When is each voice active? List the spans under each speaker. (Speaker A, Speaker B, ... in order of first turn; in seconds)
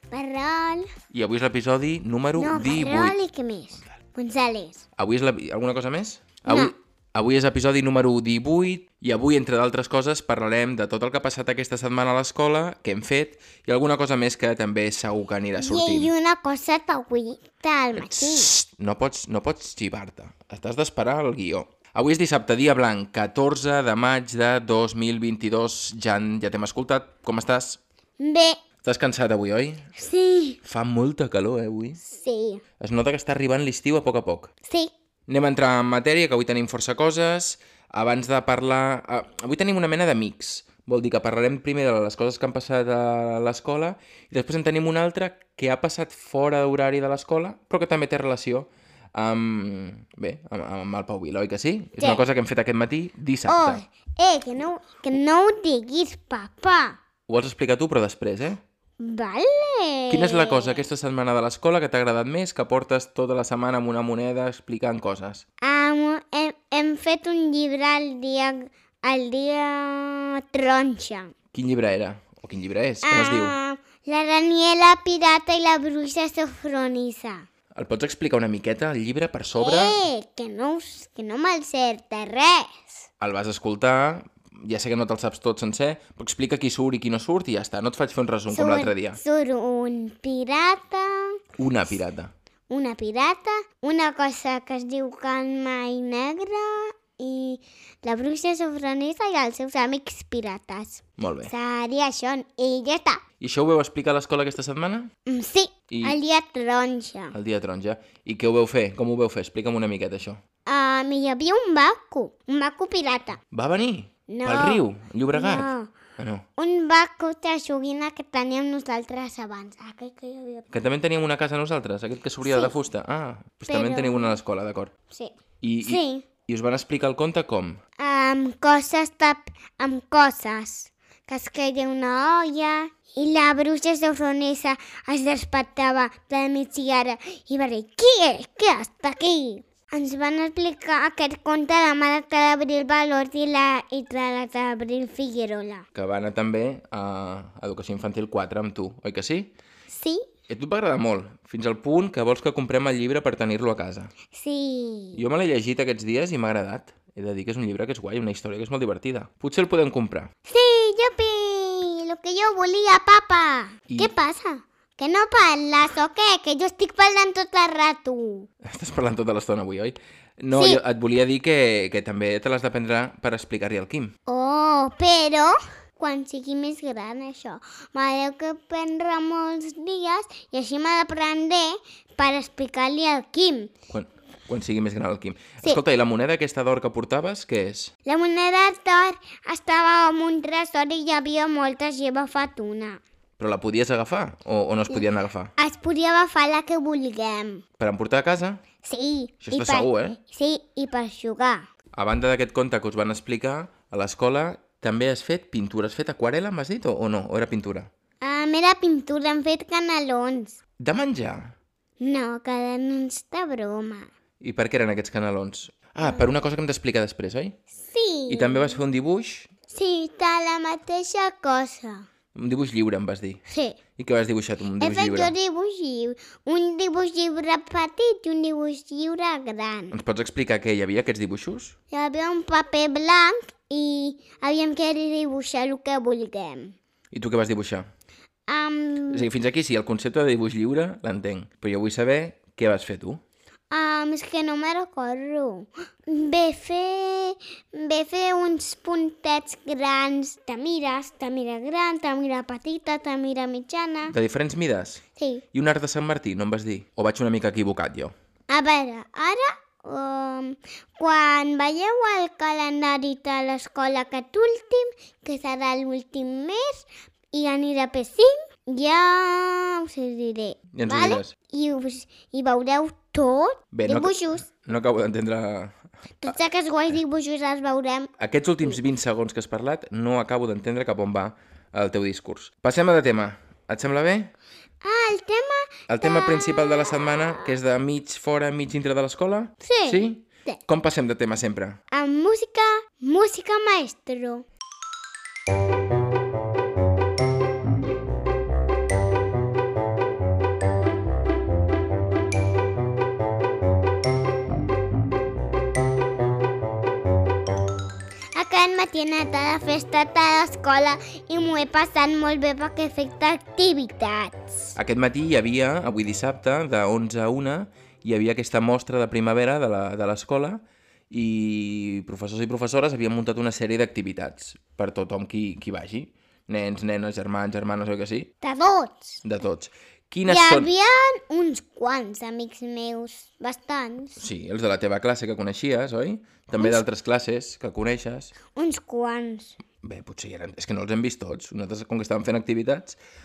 Speaker A: 0.1-0.9, 2.4-4.8, 6.4-6.7, 15.6-18.5, 28.2-28.6, 29.9-30.6, 32.0-32.6, 34.6-34.9, 52.0-52.2, 53.5-57.0, 59.0-60.9, 65.6-71.3, 73.0-77.5, 79.5-83.1, 88.5-91.3, 92.7-103.2, 105.3-107.3, 110.7-113.4, 114.3-115.9, 116.6-120.7, 122.4-122.7, 123.7-124.4, 125.1-126.2, 128.0-145.9, 149.9-150.2, 154.3-155.2, 160.5-168.5, 170.5-170.8, 174.3-183.7, 188.0-193.0, 195.6-197.6, 198.8-201.7, 208.2-210.6, 212.0-214.1, 216.0-216.3, 217.8-218.8, 219.7-222.1, 223.5-223.8, 224.8-229.9, 231.9-236.7, 238.5-239.3, 243.7-254.1, 255.2-255.4, 258.5-274.5, 276.2-278.1, 284.8-287.6, 289.6-290.6, 291.9-294.4, 308.3-314.7, 328.4-329.2, 330.2-334.2, 338.5-339.6
Speaker B: 1.1-3.2, 5.0-16.1, 17.9-27.8, 28.8-29.9, 30.6-32.0, 32.8-34.5, 35.3-53.8, 57.3-58.6, 60.1-65.4, 71.5-73.5, 77.7-80.0, 83.2-89.2, 91.6-92.3, 101.2-101.5, 103.4-105.1, 105.9-106.2, 107.3-110.4, 113.5-116.5, 120.7-124.9, 125.6-127.8, 145.9-149.5, 150.5-154.1, 155.1-160.3, 168.6-174.1, 183.9-187.9, 193.4-195.5, 197.8-198.6, 199.4-200.2, 201.9-207.9, 210.8-211.6, 214.4-217.6, 218.3-219.5, 222.3-223.4, 224.0-225.3, 229.9-231.7, 237.1-237.9, 239.1-243.2, 254.1-255.0, 255.5-258.1, 270.7-271.3, 273.7-276.4, 278.2-284.3, 285.9-291.8, 314.8-328.3, 329.2-330.7, 334.2-338.3, 339.8-343.0